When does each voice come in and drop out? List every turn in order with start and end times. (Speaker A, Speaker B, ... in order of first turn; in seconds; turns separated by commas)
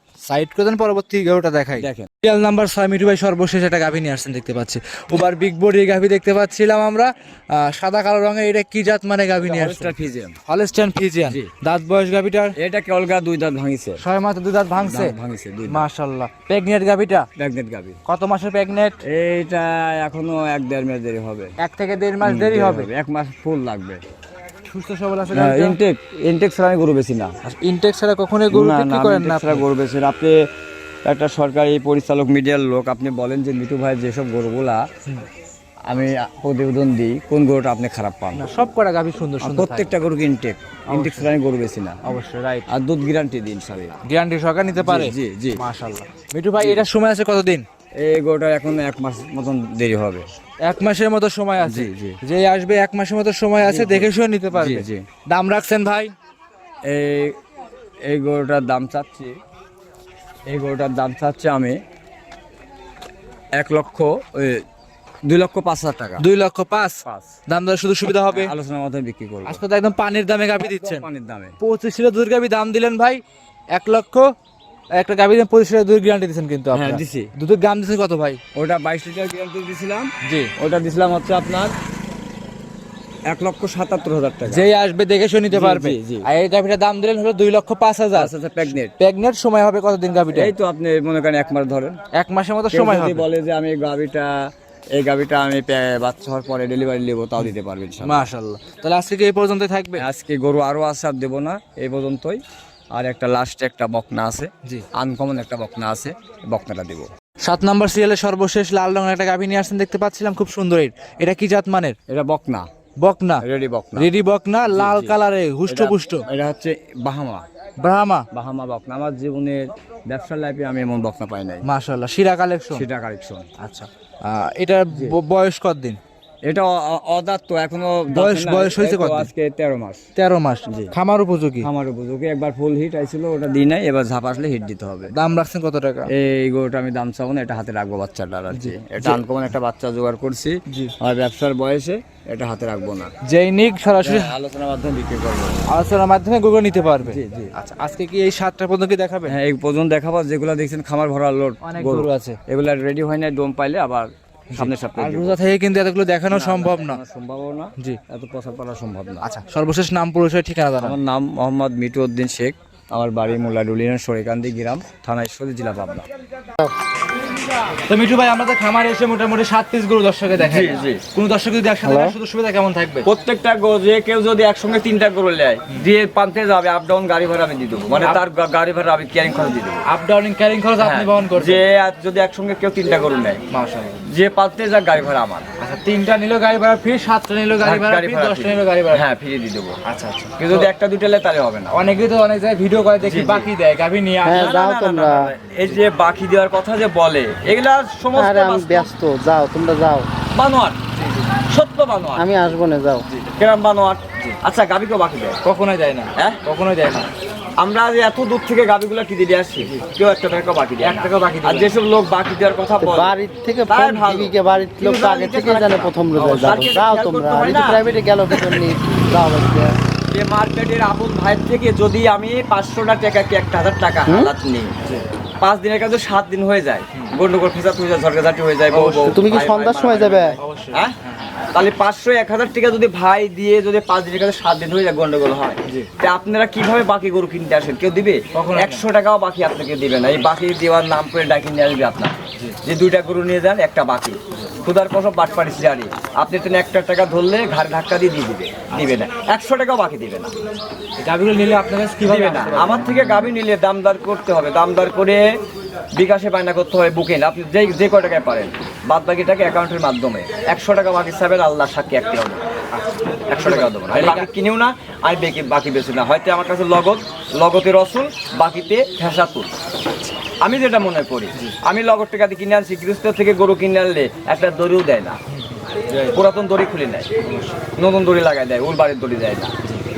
Speaker A: 0.3-9.9, Speaker B: 1.8-2.1, Speaker B: 9.4-10.4, Speaker A: 10.4-12.5, Speaker B: 12.6-14.0, Speaker A: 14.0-15.1, Speaker B: 14.8-15.8, Speaker A: 15.7-17.3, Speaker B: 17.4-18.0, Speaker A: 18.1-19.0, Speaker B: 19.0-21.5, Speaker A: 21.6-22.9, Speaker B: 22.2-24.0, Speaker A: 24.6-25.8, Speaker B: 25.3-27.3, Speaker A: 27.4-29.6, Speaker B: 28.5-30.3, Speaker B: 31.0-34.8, Speaker B: 35.9-38.5, Speaker A: 38.3-39.9, Speaker B: 39.4-42.0, Speaker A: 40.9-41.3, Speaker A: 42.0-42.7, Speaker B: 42.7-44.0, Speaker A: 44.0-47.6, Speaker B: 44.8-45.6, Speaker B: 46.6-46.8, Speaker B: 48.0-50.2, Speaker A: 50.6-56.1, Speaker B: 51.6-52.2, Speaker B: 53.6-55.0, Speaker B: 56.8-57.4, Speaker B: 58.0-59.4, Speaker B: 60.5-61.8, Speaker B: 63.5-64.6, Speaker B: 65.2-66.2, Speaker A: 66.2-68.5, Speaker B: 67.0-67.3, Speaker B: 68.3-69.6, Speaker A: 69.5-71.0, Speaker B: 70.6-71.5, Speaker A: 71.6-73.2, Speaker A: 73.7-74.3, Speaker A: 75.0-78.4, Speaker B: 76.7-77.3, Speaker B: 78.5-81.7, Speaker A: 80.2-80.5, Speaker B: 83.3-84.7, Speaker A: 84.4-90.5, Speaker B: 85.5-86.2, Speaker B: 88.1-88.9, Speaker B: 90.3-92.0, Speaker A: 92.1-93.3, Speaker B: 92.7-94.3, Speaker B: 94.9-98.3, Speaker A: 98.0-100.0, Speaker B: 100.0-102.4, Speaker B: 102.9-107.1, Speaker A: 107.4-112.0, Speaker B: 112.1-112.7, Speaker A: 113.0-113.4, Speaker B: 113.4-114.1, Speaker A: 114.0-116.2, Speaker B: 114.7-115.1, Speaker B: 115.7-117.4, Speaker A: 117.8-118.3, Speaker B: 118.3-121.7, Speaker A: 121.6-122.8, Speaker B: 122.7-123.5, Speaker A: 123.6-126.0, Speaker B: 126.5-130.0, Speaker A: 128.1-129.3, Speaker A: 130.2-131.7, Speaker B: 130.7-130.9, Speaker B: 131.6-135.1, Speaker A: 135.1-136.1, Speaker B: 136.1-143.1, Speaker A: 138.5-139.2, Speaker A: 140.7-140.9, Speaker A: 143.2-144.3, Speaker B: 144.0-145.6, Speaker A: 145.7-149.3, Speaker B: 147.0-147.5, Speaker B: 149.3-155.4, Speaker A: 151.6-152.4, Speaker A: 154.5-157.0, Speaker B: 156.3-159.2, Speaker A: 159.2-161.0, Speaker B: 160.8-166.0, Speaker A: 167.9-173.1, Speaker B: 170.4-171.0, Speaker C: 171.8-172.1, Speaker B: 173.0-179.8, Speaker A: 177.9-178.2, Speaker A: 179.8-181.6, Speaker B: 180.8-183.4, Speaker A: 183.5-184.0, Speaker B: 184.1-185.5, Speaker A: 185.6-189.1, Speaker B: 187.6-189.8, Speaker A: 189.8-190.7, Speaker B: 190.4-191.8, Speaker A: 191.7-194.5, Speaker B: 193.0-193.5, Speaker C: 194.2-195.3, Speaker B: 194.3-198.9, Speaker C: 198.1-200.1, Speaker B: 200.3-200.8, Speaker A: 201.0-201.3, Speaker B: 201.5-202.3, Speaker C: 202.2-203.0, Speaker B: 203.3-205.4, Speaker A: 205.4-207.1, Speaker B: 207.6-213.1, Speaker A: 210.8-211.7, Speaker C: 212.8-219.8, Speaker B: 213.7-218.6, Speaker B: 220.1-224.7, Speaker C: 224.1-224.3, Speaker B: 225.4-230.9, Speaker A: 228.7-229.2, Speaker C: 229.0-230.4, Speaker A: 230.4-231.3, Speaker B: 231.5-250.3, Speaker A: 238.3-238.8, Speaker A: 251.0-253.2, Speaker B: 252.0-255.2, Speaker B: 255.9-262.4, Speaker B: 263.3-269.5, Speaker A: 263.4-264.3, Speaker B: 270.4-275.2, Speaker A: 275.3-276.1, Speaker B: 276.1-277.1, Speaker A: 277.2-277.6, Speaker B: 277.8-279.5